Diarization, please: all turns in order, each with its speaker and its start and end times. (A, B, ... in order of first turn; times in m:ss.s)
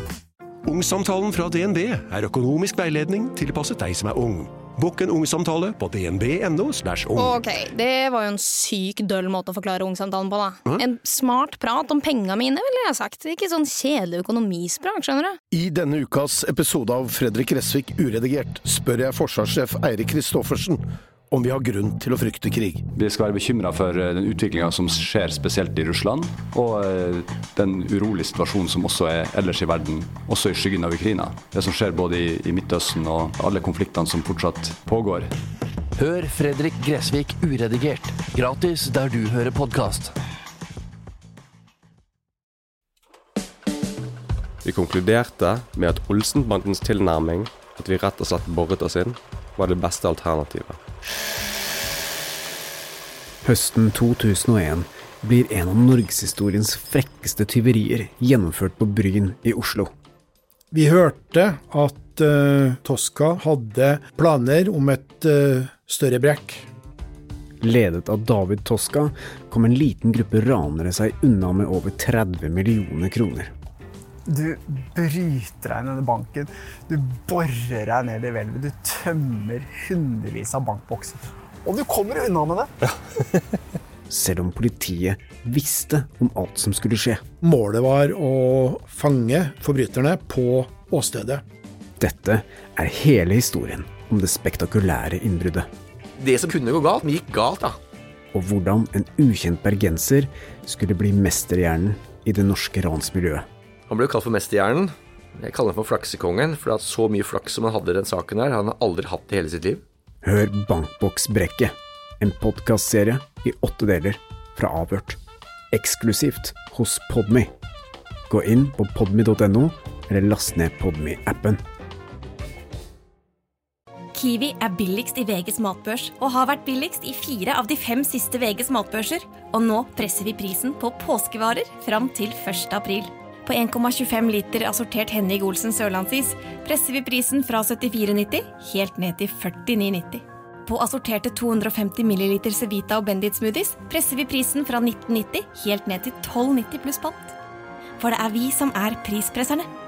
0:00.6-0:07.5 A
0:07.2-0:15.4 B
0:15.5-0:22.8 C
0:22.9-0:35.3 D
0:36.0-0:40.1 E
0:44.6-0:50.8 F
0:53.4-0:59.9 G
1:00.7-1:06.6 H
1:07.6-1:13.5 G
1:14.3-1:22.7 I
1:24.1-1:27.2 G
1:27.4-1:31.4 H
1:32.0-1:35.7 G
1:36.2-1:37.8 J
1:38.3-1:43.4 G
1:43.9-1:49.8 J
1:50.2-1:55.2 G
1:55.7-1:57.5 G
1:58.3-2:01.6 G
2:04.1-2:27.3 K
2:28.0-2:29.7 K